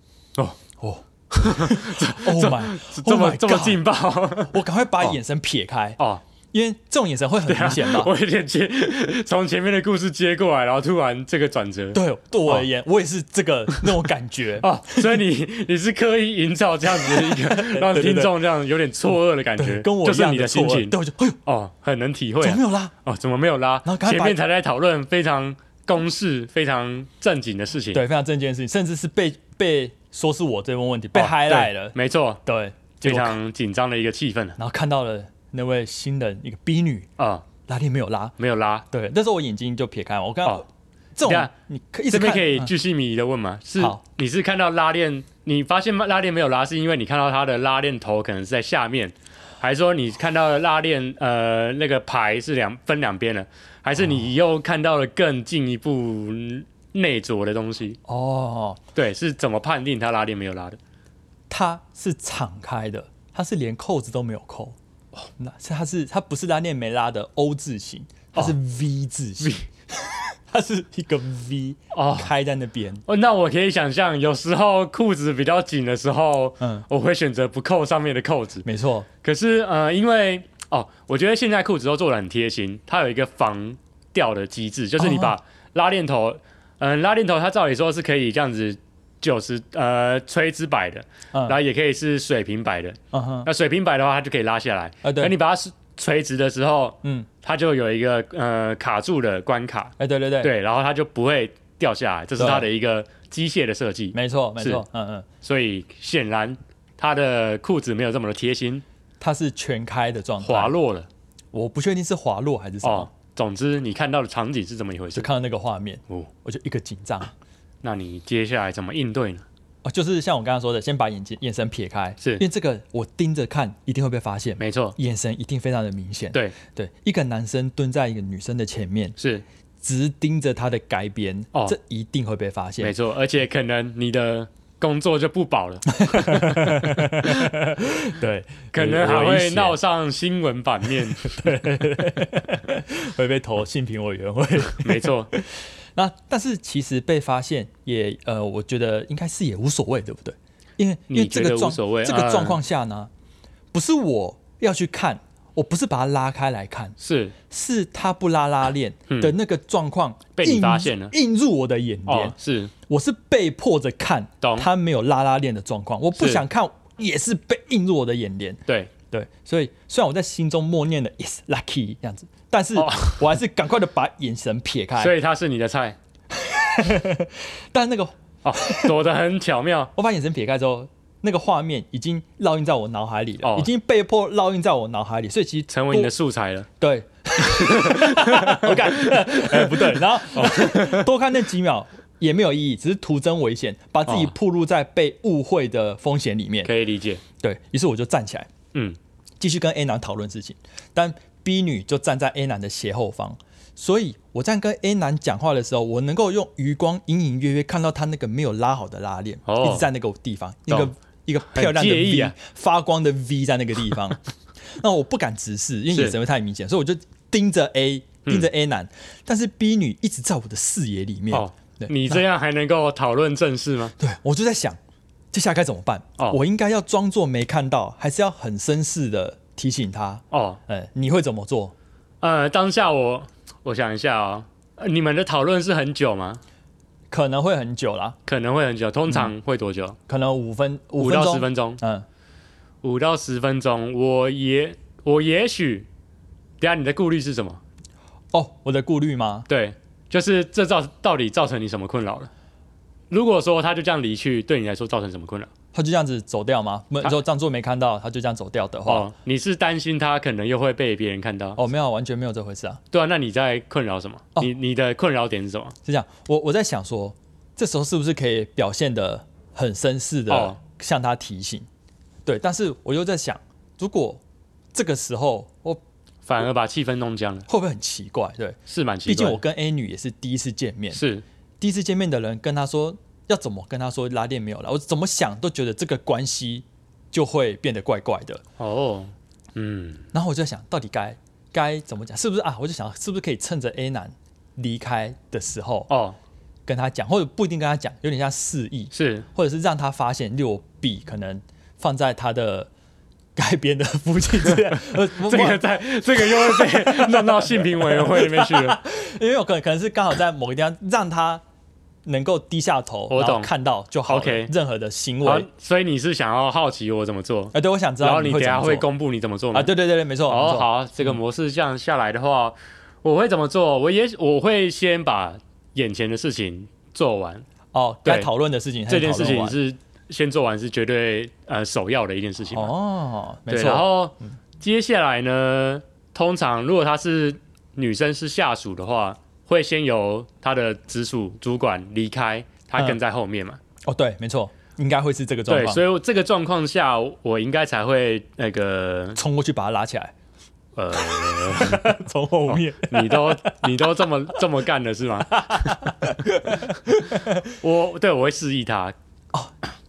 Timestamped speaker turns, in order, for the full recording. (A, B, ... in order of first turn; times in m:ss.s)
0:00.8-0:03.8 A
0:01.3-0:05.2 B
0:04.5-0:06.0 A
0:06.5-0:08.1 A
0:07.4-0:12.6 B
0:11.9-0:15.0 A
0:14.6-0:28.0 B
0:16.9-0:18.3 A
0:19.6-0:21.4 A
0:22.4-0:22.9 A
0:23.8-0:24.4 A
0:27.9-0:33.4 A
0:31.1-0:32.4 B
0:33.0-0:34.6 B
0:34.6-0:37.1 A
0:37.2-0:37.4 B
0:37.6-0:38.4 A
0:38.4-0:38.8 B
0:38.9-0:42.7 A
0:41.2-0:41.5 B
0:42.1-0:58.0 B
0:58.1-0:58.8 A
0:58.9-1:00.8 B
1:01.5-1:04.8 A
1:05.4-1:13.0 A
1:11.9-1:12.3 B
1:13.0-1:18.6 B
1:16.6-1:16.8 A
1:18.6-1:19.1 A
1:19.2-1:44.8 B
1:25.0-1:25.3 A
1:31.3-1:31.6 A
1:33.1-1:33.5 A
1:35.0-1:35.3 A
1:37.0-1:37.3 A
1:40.0-1:40.5 A
1:42.4-1:42.7 A
1:44.1-1:45.3 A
1:45.4-1:48.8 B
1:49.2-1:50.7 A
1:50.4-1:51.1 B
1:51.5-1:53.1 A
1:52.8-1:55.3 B
1:55.2-1:57.3 A
1:57.8-1:59.4 B
1:59.8-2:09.2 A
2:04.6-2:05.0 B
2:09.2-2:09.4 B
2:09.8-2:12.9 A
2:12.8-2:17.6 B
2:16.0-2:19.8 A
2:18.7-2:21.6 B
2:20.9-2:33.1 A
2:24.7-2:25.3 B
2:31.1-2:32.6 B
2:33.7-2:36.9 A
2:37.0-2:37.3 B
2:37.5-2:42.4 A
2:40.4-2:41.1 B
2:42.1-2:42.7 B
2:42.9-2:55.1 A
2:44.4-2:44.7 B
2:46.2-2:46.4 B
2:52.8-2:53.2 B
2:55.0-2:56.0 B
2:56.3-2:58.9 A
2:58.4-2:59.9 B
2:59.9-3:06.1 A
3:03.4-3:03.7 B
3:05.7-3:06.7 B
3:06.8-3:16.7 A
3:07.4-3:11.1 B
3:14.1-3:14.3 B
3:16.6-3:17.2 B
3:17.4-3:18.5 A
3:19.4-3:42.2 A
3:29.4-3:29.9 B
3:31.5-3:32.3 B
3:41.3-3:43.9 B
3:44.0-3:44.8 A
3:45.3-3:51.7 A
3:50.3-3:50.6 B
3:52.2-3:56.4 B
3:57.1-3:58.2 A
3:58.2-4:00.0 B
4:00.1-4:02.0 A
4:01.0-4:01.8 B
4:02.8-4:05.9 B
4:06.6-4:07.6 B
4:08.3-4:09.5 A
4:09.5-4:12.3 B
4:13.1-4:15.5 B
4:15.7-4:19.1 A
4:18.8-4:21.6 B
4:21.6-4:22.8 A
4:22.9-4:25.7 B
4:25.8-4:31.7 A
4:30.3-4:30.6 B
4:32.2-4:34.2 A
4:34.7-4:35.8 A
4:36.3-4:37.4 B
4:37.5-4:41.0 A
4:38.7-4:39.4 B
4:40.9-4:41.2 B
4:41.6-4:48.4 A
4:48.6-4:50.0 B
4:50.1-4:55.9 A
4:55.9-4:56.2 B
4:56.6-5:02.7 A
4:58.9-4:59.2 B
5:03.4-5:11.4 A
5:04.4-5:08.8 B
5:12.0-5:15.5 A
5:13.1-5:13.5 B
5:14.1-5:14.5 B
5:15.2-5:19.7 B
5:17.5-5:18.9 A
5:19.5-5:21.1 A
5:20.3-5:27.4 B
5:27.7-5:29.6 A
5:28.9-5:32.7 B
5:32.5-5:34.2 A
5:33.5-5:43.6 B
5:43.8-5:45.8 A
5:45.5-5:49.2 B
5:49.2-5:50.1 A
5:50.8-5:51.9 B
5:50.9-5:53.7 A
5:52.5-5:56.1 B
5:55.4-5:57.5 A
5:57.5-5:58.9 B